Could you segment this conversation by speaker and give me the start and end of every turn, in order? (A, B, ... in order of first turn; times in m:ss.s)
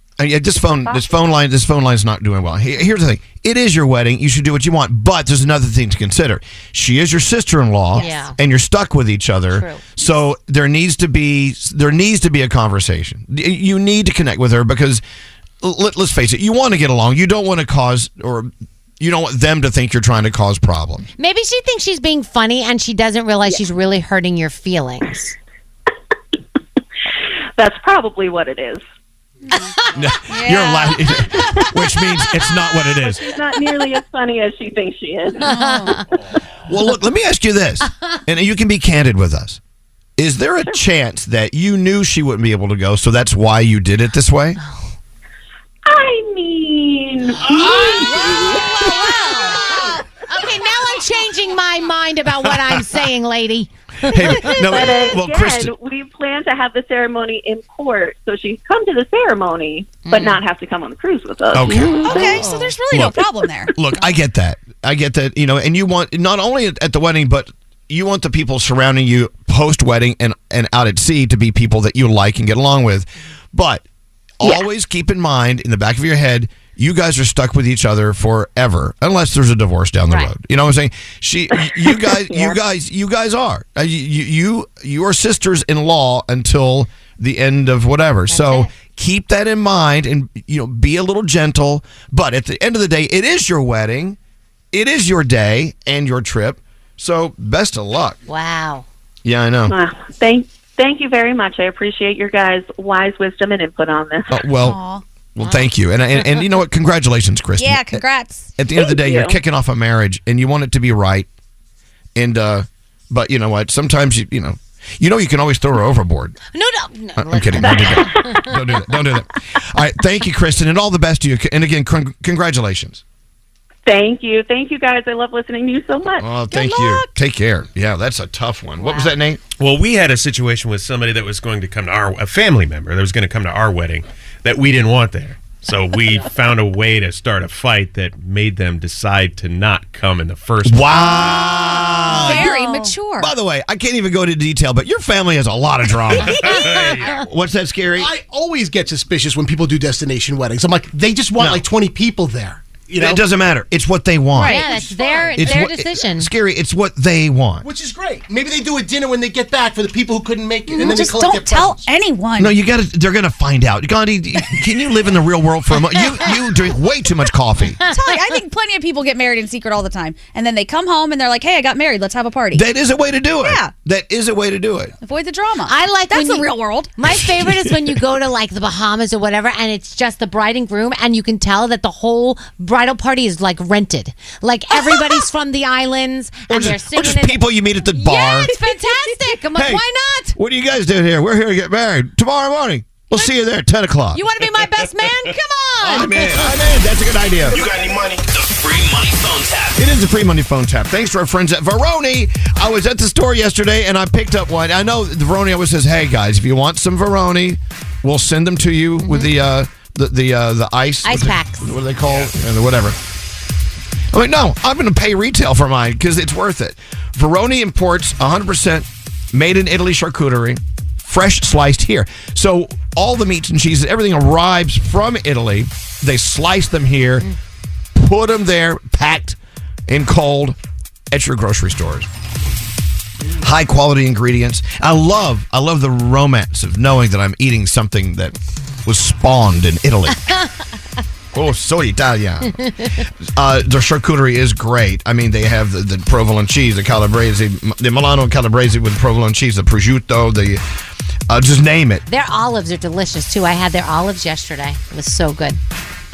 0:00.2-0:15.0 A
0:07.9-0:08.4 B
0:09.5-0:09.9 B
0:15.6-0:21.1 A
0:21.2-0:25.3 B
0:27.6-0:28.8 C
0:29.9-0:33.3 A
0:30.3-0:31.5 D
0:32.9-0:35.5 C
0:35.4-0:36.0 D
0:35.4-0:36.0 B
0:36.7-0:39.6 A
0:40.2-0:44.6 A
0:45.8-0:49.2 C
0:47.6-0:54.6 B
0:54.1-0:55.7 A
0:54.6-1:02.2 C
1:00.0-1:00.4 B
1:01.5-1:03.2 A
1:01.9-1:03.7 D
1:02.2-1:02.7 B
1:03.7-1:13.8 A
1:14.4-1:34.2 A
1:20.1-1:20.3 B
1:21.9-1:22.6 C
1:28.3-1:28.7 B
1:34.7-1:38.2 A
1:38.3-1:38.9 B
1:39.2-1:39.7 A
1:39.7-1:44.5 C
1:44.3-1:44.8 A
1:44.6-1:45.0 D
1:45.3-1:48.0 A
1:45.4-1:45.7 B
1:47.6-1:48.5 D
1:48.6-1:51.3 A
1:48.7-1:49.3 C
1:52.1-1:56.4 A
1:56.5-1:58.5 B
1:57.2-2:03.0 A
1:57.6-1:58.4 C
2:03.9-2:06.2 C
2:06.2-2:09.4 A
2:06.5-2:07.1 D
2:08.8-2:09.1 B
2:09.6-2:20.9 E
2:20.6-2:28.1 A
2:21.0-2:23.3 D
2:26.2-2:27.2 B
2:26.4-2:27.1 E
2:28.0-2:33.2 F
2:31.4-2:31.6 A
2:33.0-2:34.7 A
2:34.4-2:34.7 D
2:34.4-2:36.3 B
2:34.7-2:35.5 F
2:35.4-2:37.7 A
2:37.6-2:41.8 F
2:40.7-2:42.6 D
2:42.4-2:47.8 A
2:47.9-2:48.1 B
2:47.9-2:52.6 D
2:52.5-2:54.9 A
2:53.4-2:53.7 D
2:55.0-2:56.9 D
2:55.7-3:10.4 B
2:57.4-2:57.9 A
3:06.5-3:08.5 A
3:09.5-3:09.8 A
3:10.3-3:14.3 A
3:14.1-3:16.4 B
3:15.8-3:17.6 A
3:17.4-3:19.8 G
3:19.8-3:33.0 A
3:29.0-3:29.3 B
3:31.0-3:31.7 B
3:34.1-3:47.3 A
3:47.9-3:50.6 A
3:51.1-3:52.1 A
3:53.4-4:00.3 A
4:01.3-4:02.6 A
4:02.6-4:02.9 B
4:03.3-4:10.6 A
4:11.3-4:12.0 A
4:12.1-4:15.6 B